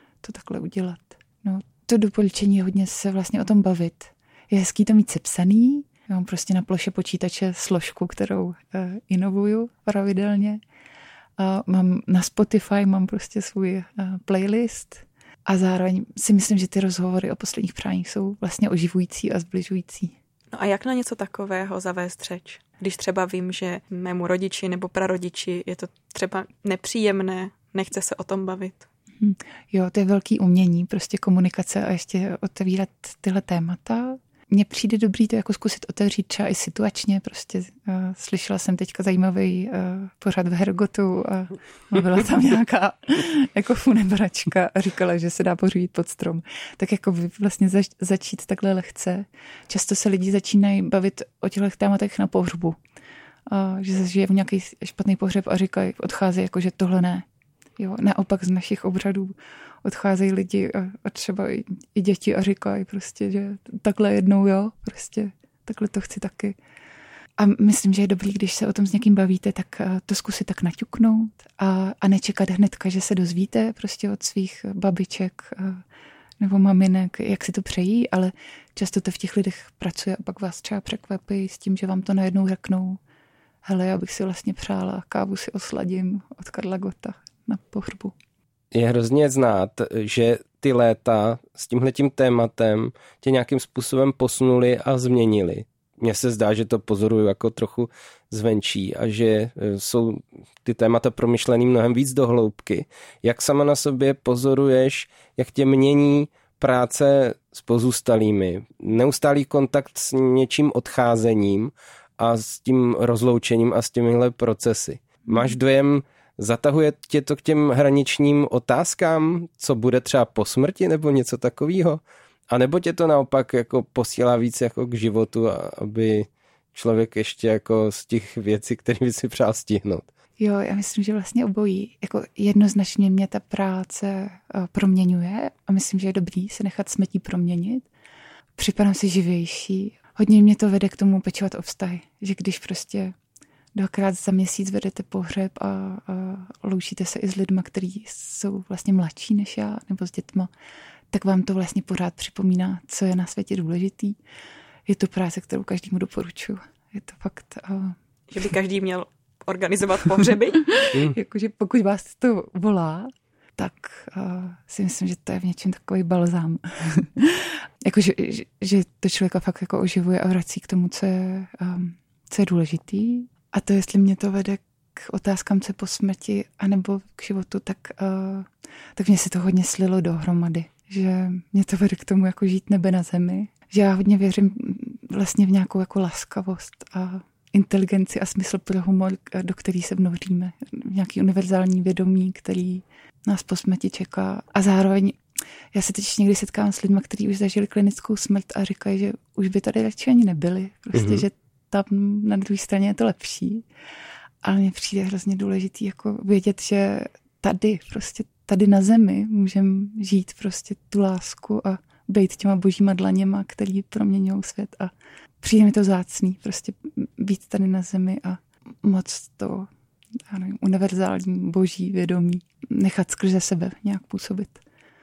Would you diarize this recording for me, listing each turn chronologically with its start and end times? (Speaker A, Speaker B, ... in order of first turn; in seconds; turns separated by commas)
Speaker A: 0.2-10.6, Speaker A: 11.4-20.1, Speaker B: 20.5-28.9, Speaker A: 29.2-52.8, Speaker A: 53.5-57.2, Speaker A: 57.8-66.5, Speaker A: 67.4-75.8, Speaker A: 76.4-83.0, Speaker A: 83.6-88.1, Speaker C: 88.7-130.1, Speaker A: 115.3-115.5, Speaker A: 130.4-137.9, Speaker A: 138.6-143.1, Speaker A: 143.7-150.5, Speaker A: 151.1-154.2, Speaker A: 154.9-157.9, Speaker B: 158.3-160.7, Speaker A: 160.7-195.2, Speaker A: 195.7-203.6, Speaker C: 200.9-201.2, Speaker A: 204.4-219.7, Speaker A: 220.3-224.6